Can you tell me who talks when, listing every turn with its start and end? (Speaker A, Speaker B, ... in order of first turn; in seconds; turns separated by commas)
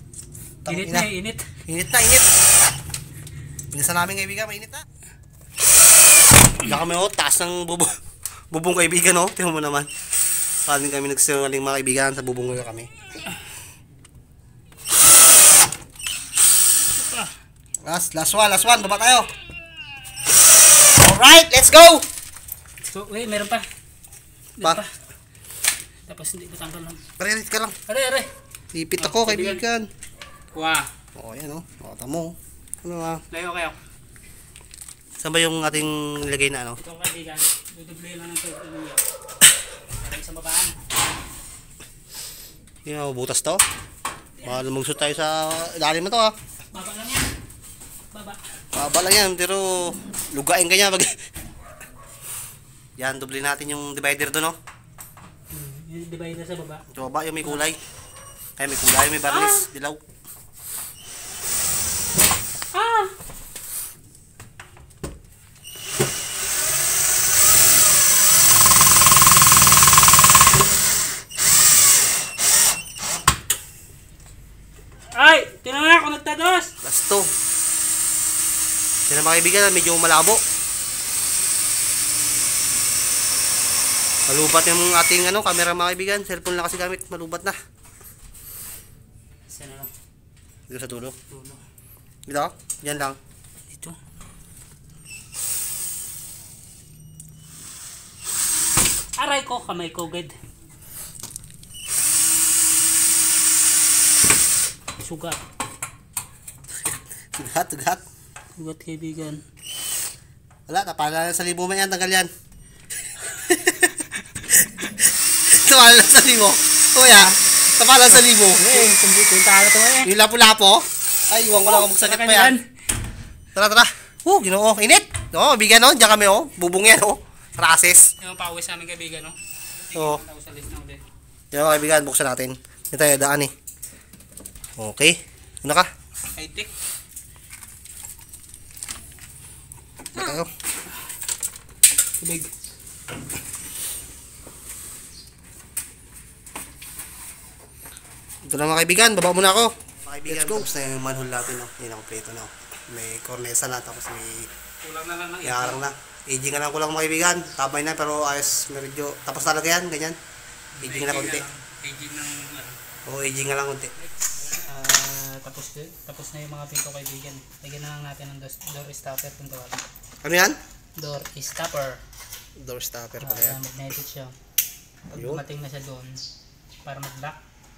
Speaker A: 0.7-1.1, Speaker B: 0.7-1.5, Speaker A: 1.7-2.3, Speaker A: 3.7-4.8, Speaker A: 6.6-8.0, Speaker A: 8.5-9.9, Speaker A: 10.7-12.9, Speaker B: 16.9-17.3, Speaker A: 17.8-19.3, Speaker A: 20.8-22.0, Speaker B: 22.9-23.6, Speaker B: 24.6-24.9, Speaker B: 26.1-27.0, Speaker A: 27.2-27.8, Speaker B: 27.9-28.3, Speaker A: 28.7-29.9, Speaker B: 29.0-29.6, Speaker B: 30.5-30.9, Speaker A: 31.1-33.2, Speaker B: 33.3-33.8, Speaker A: 35.2-36.8, Speaker B: 36.8-39.0, Speaker B: 40.0-40.8, Speaker A: 42.9-43.6, Speaker A: 44.4-46.4, Speaker B: 46.7-47.3, Speaker B: 48.1-48.4, Speaker A: 48.7-51.2, Speaker A: 53.0-54.5, Speaker B: 55.5-56.9, Speaker A: 56.9-57.8, Speaker A: 58.6-60.0, Speaker B: 59.3-59.6, Speaker B: 62.7-63.1, Speaker B: 75.1-76.7, Speaker A: 76.8-77.3, Speaker A: 79.0-80.4, Speaker A: 84.3-87.5, Speaker B: 89.5-89.9, Speaker A: 90.7-91.2, Speaker B: 91.3-91.6, Speaker A: 92.3-93.2, Speaker B: 93.7-94.0, Speaker B: 99.2-100.3, Speaker B: 105.0-105.4, Speaker A: 107.3-108.0, Speaker B: 108.6-109.4, Speaker A: 110.7-112.3, Speaker A: 113.2-118.9, Speaker B: 117.1-117.4, Speaker B: 118.0-120.1, Speaker A: 120.0-122.5, Speaker B: 121.7-122.6, Speaker A: 123.5-128.1, Speaker B: 128.2-131.0, Speaker A: 129.9-130.2, Speaker A: 131.5-133.5, Speaker A: 134.8-135.9, Speaker B: 136.3-136.7, Speaker A: 140.1-140.5, Speaker B: 142.2-142.5, Speaker A: 148.5-154.5, Speaker B: 154.8-155.8, Speaker A: 155.4-160.2, Speaker B: 160.8-162.8, Speaker A: 160.8-161.4, Speaker A: 163.1-163.9, Speaker B: 164.0-169.8, Speaker A: 170.2-170.6, Speaker B: 171.0-172.0, Speaker A: 172.6-173.6, Speaker B: 173.2-174.3, Speaker B: 175.1-176.2, Speaker A: 175.1-175.4, Speaker B: 176.8-177.4